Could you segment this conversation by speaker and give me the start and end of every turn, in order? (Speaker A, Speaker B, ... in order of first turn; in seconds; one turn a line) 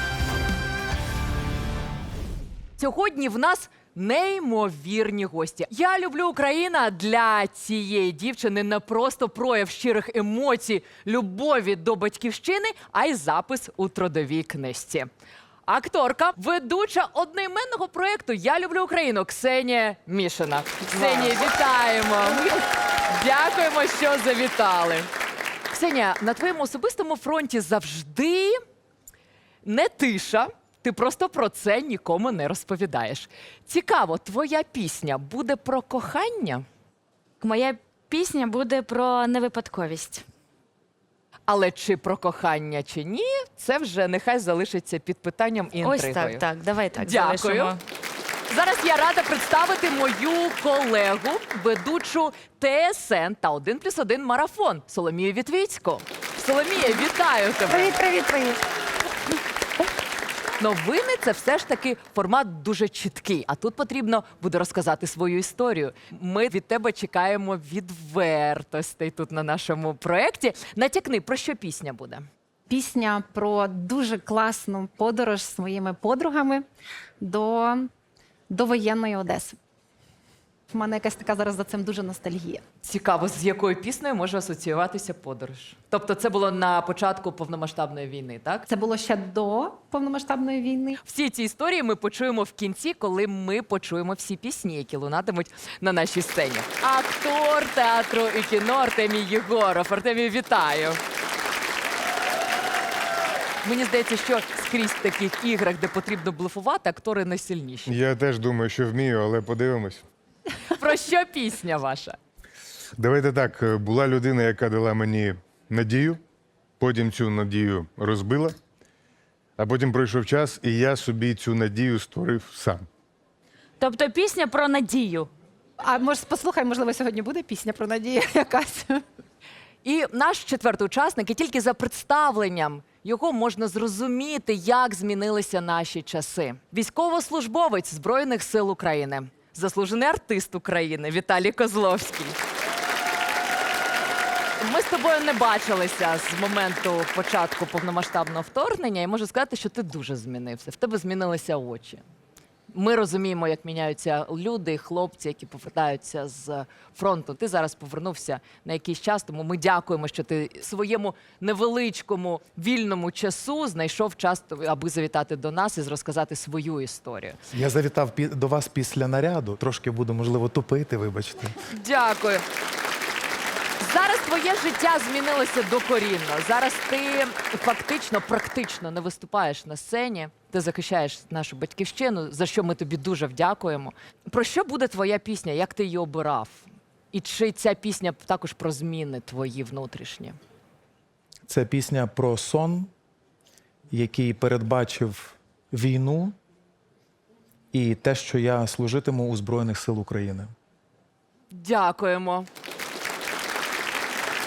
Speaker A: 2.8-15.1
Speaker A: 15.7-25.1
Speaker A: 25.7-28.6
Speaker A: 29.6-36.6
Speaker B: 37.4-40.2
Speaker A: 41.5-46.4
Speaker B: 45.8-47.8
Speaker A: 47.0-47.7
Speaker A: 48.5-58.0
Speaker C: 57.8-58.6
Speaker A: 60.6-72.2
Speaker C: 72.7-76.6
Speaker C: 77.2-77.9
Speaker C: 78.5-79.5
Speaker C: 80.7-82.6
Speaker A: 82.8-88.6
Speaker C: 88.7-91.0
Speaker A: 91.0-101.0
Speaker A: 103.6-108.0
Speaker D: 107.9-110.0
Speaker A: 110.6-112.2
Speaker D: 113.0-116.2
Speaker D: 116.8-118.6
Speaker D: 119.6-122.8
Speaker B: 123.8-125.3
Speaker C: 125.8-129.0
Speaker A: 129.8-142.4
Speaker A: 144.6-152.0
Speaker A: 152.7-167.4
Speaker E: 167.5-171.5
Speaker A: 171.7-172.4
Speaker A: 173.8-190.4
Speaker E: 191.5-192.9
Speaker E: 193.9-196.3
Speaker E: 197.7-200.5
Speaker A: 201.5-202.5